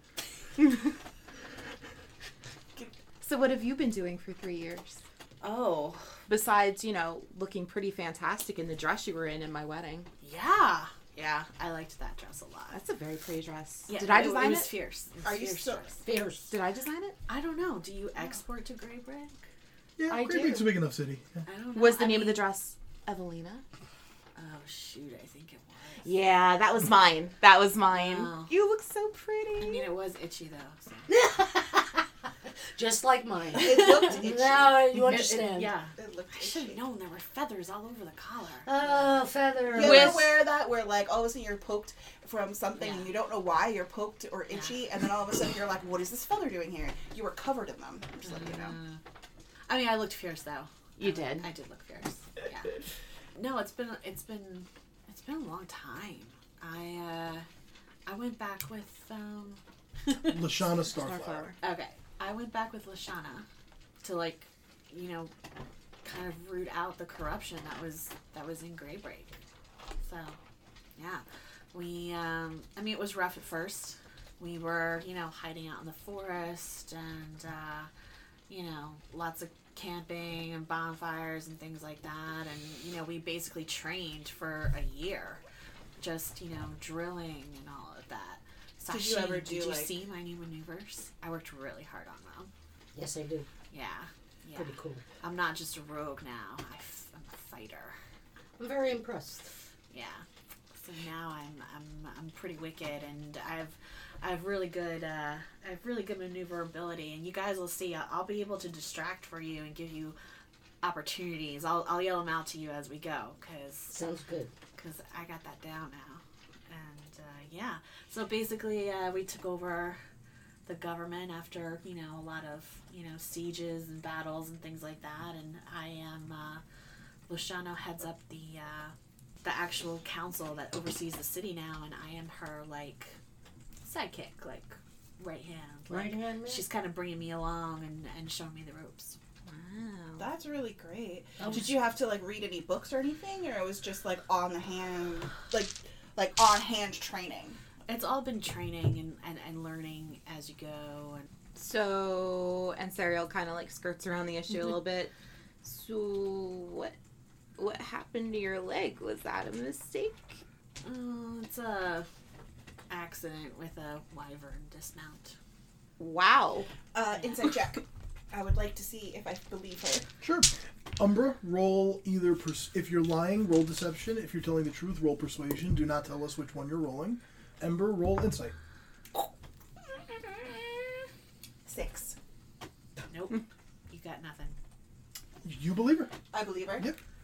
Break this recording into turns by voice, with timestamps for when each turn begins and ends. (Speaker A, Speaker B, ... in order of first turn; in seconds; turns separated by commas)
Speaker A: 3.2-5.0, Speaker B: 5.4-6.1, Speaker A: 6.3-10.1, Speaker B: 10.2-12.8, Speaker A: 12.7-14.7, Speaker B: 13.9-16.0, Speaker C: 15.2-16.1, Speaker D: 16.0-16.6, Speaker A: 16.5-17.2, Speaker B: 17.3-19.4, Speaker E: 20.0-21.4, Speaker B: 21.5-22.4, Speaker A: 21.7-23.6, Speaker B: 24.4-26.1, Speaker A: 26.0-29.9, Speaker B: 27.9-28.5, Speaker B: 29.6-31.1, Speaker D: 31.1-32.1, Speaker D: 32.8-35.8, Speaker C: 33.5-35.0, Speaker B: 33.8-34.2, Speaker B: 34.9-39.0, Speaker C: 35.9-36.8, Speaker D: 38.6-40.4, Speaker C: 39.7-48.8, Speaker B: 42.8-43.1, Speaker B: 44.5-44.8, Speaker B: 48.2-49.0, Speaker B: 49.7-52.8, Speaker A: 51.0-51.5, Speaker B: 53.4-57.5, Speaker B: 58.1-60.4, Speaker E: 60.2-61.5, Speaker A: 60.9-61.6, Speaker B: 61.6-63.5, Speaker B: 64.0-65.3, Speaker B: 66.0-69.4, Speaker B: 70.0-70.4, Speaker B: 71.0-77.9, Speaker B: 78.5-85.4, Speaker B: 86.0-92.5, Speaker C: 88.9-89.9, Speaker D: 93.0-93.5, Speaker B: 93.7-98.0, Speaker D: 94.5-95.0, Speaker D: 98.6-99.5, Speaker B: 99.9-110.2, Speaker B: 110.8-114.1, Speaker D: 113.9-114.5, Speaker B: 114.8-120.0, Speaker B: 120.7-126.6, Speaker B: 127.3-133.2, Speaker B: 133.8-139.2, Speaker D: 135.9-136.7, Speaker A: 139.5-140.3, Speaker C: 140.2-147.6, Speaker D: 141.4-141.7, Speaker B: 147.9-151.3, Speaker A: 151.6-156.9, Speaker A: 157.6-160.4, Speaker B: 160.8-162.1, Speaker B: 162.9-165.4, Speaker A: 166.0-166.7, Speaker C: 166.9-170.1, Speaker E: 170.2-178.6, Speaker C: 180.3-180.5, Speaker C: 181.7-182.2, Speaker B: 183.1-184.6, Speaker E: 185.4-186.1, Speaker C: 186.3-186.9